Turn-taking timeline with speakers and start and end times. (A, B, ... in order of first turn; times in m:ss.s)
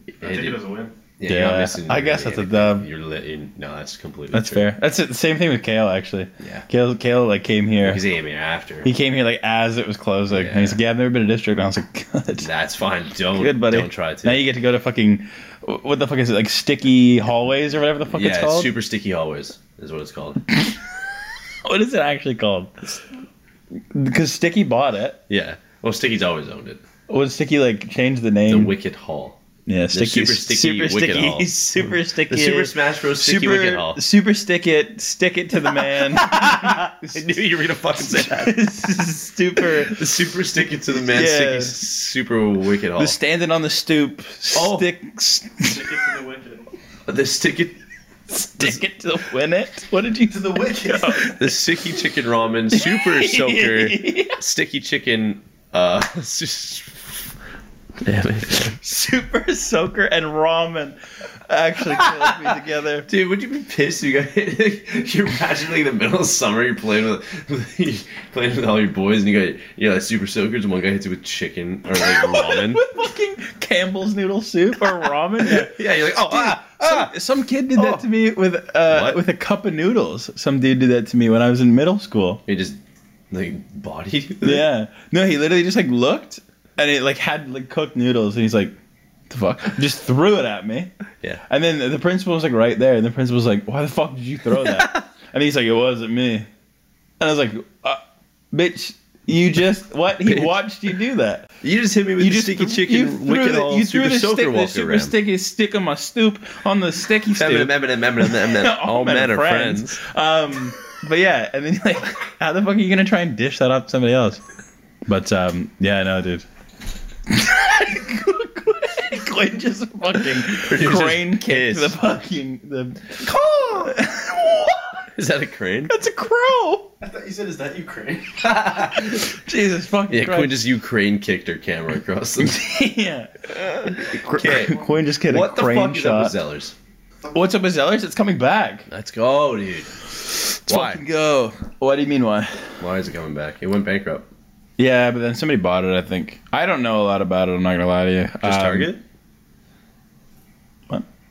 0:00.2-0:00.6 A
0:00.2-0:00.9 B
0:01.2-0:04.7 A
0:01.3-0:02.8 C
0:04.3-0:08.0 C
0:06.4-0:06.7 A
0:07.8-0:08.9 A
0:08.8-0:12.5 C
0:10.3-0:10.8 A
0:12.4-0:14.4 A
0:13.3-0:18.7 C
0:18.1-0:20.4 A
0:21.6-0:23.0 C
0:23.9-0:25.2 C
0:25.3-0:26.8 A
0:27.1-0:28.7 C
0:28.5-0:29.4 A
0:29.7-0:37.4 C
0:29.9-0:34.0 A
0:35.7-0:38.6 A
0:38.0-0:40.1 C
0:39.6-0:43.2 A
0:41.0-0:41.8 C
0:43.0-0:45.8 C
0:44.5-0:44.9 A
0:45.6-0:46.6 B
0:47.1-0:47.8 A
0:48.3-0:51.5 C
0:48.4-0:48.8 A
0:50.3-0:51.3 B
0:51.2-0:57.3 A
0:52.7-0:54.4 C
0:58.0-0:58.8 A
0:58.8-1:03.1 C
1:01.9-1:02.3 A
1:03.1-1:12.8 A
1:12.0-1:22.4 C
1:15.0-1:17.1 A
1:17.7-1:18.0 A
1:18.9-1:19.2 A
1:22.4-1:24.7 A
1:24.4-1:28.7 C
1:29.3-1:30.9 C
1:31.5-1:36.5 C
1:34.5-1:35.0 A
1:37.2-1:38.0 C
1:38.5-1:41.5 C
1:40.2-1:40.6 A
1:41.6-1:45.1 A
1:42.2-1:54.4 C
1:47.4-1:50.0 A
1:55.1-1:56.4 C
1:57.3-2:05.0 C
2:00.5-2:02.0 A
2:03.2-2:03.9 A
2:05.1-2:05.9 A
2:05.9-2:06.9 C
2:07.0-2:08.5 B
2:08.4-2:09.2 A
2:08.9-2:10.6 C
2:10.1-2:12.6 A
2:12.4-2:16.3 C
2:14.1-2:16.7 A
2:17.3-2:18.9 C
2:18.9-2:19.9 A
2:20.3-2:22.7 C
2:20.7-2:21.0 A
2:22.8-2:24.2 A
2:24.8-2:28.9 C
2:28.4-2:29.0 A